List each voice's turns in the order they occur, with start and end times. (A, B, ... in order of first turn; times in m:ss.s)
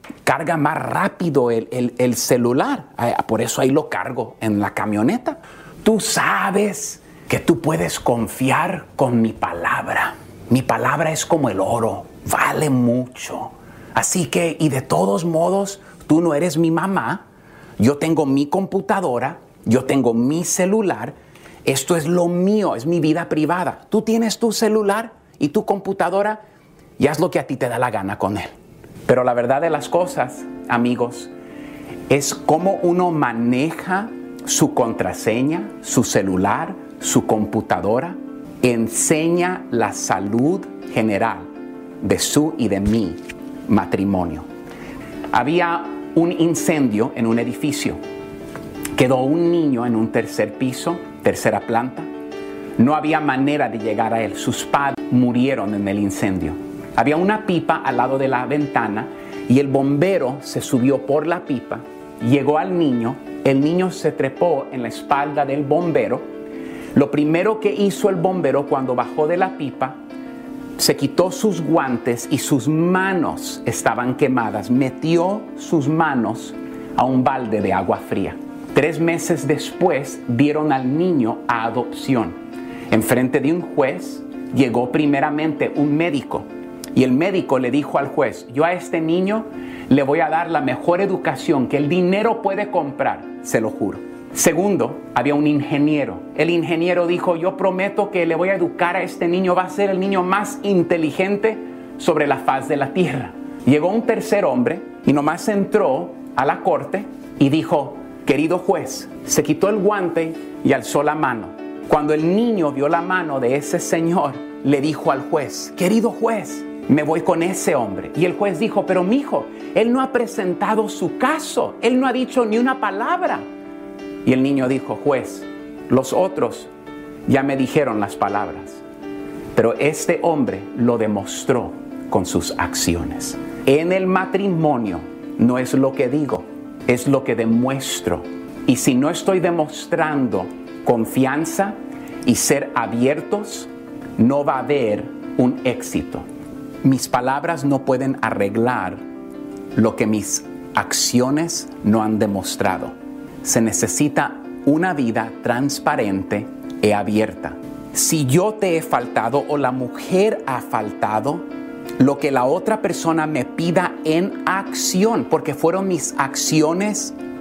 0:00.2-0:17.2 A
0:17.8-0:26.4 A
0:27.0-0:28.5 A
0:29.1-0:31.3 A
0:32.1-0:41.5 A
0:42.0-0:44.5 A
0:45.3-0:48.0 A
0:49.0-0:52.1 A
0:52.8-1:06.3 A
1:07.0-1:10.0 A
1:10.8-1:22.4 A
1:22.9-2:03.5 A
2:04.2-2:06.7 A
2:07.3-2:08.8 A
2:09.5-2:26.3 A
2:26.8-2:29.0 A
2:29.8-2:41.5 A
2:42.0-2:47.2 A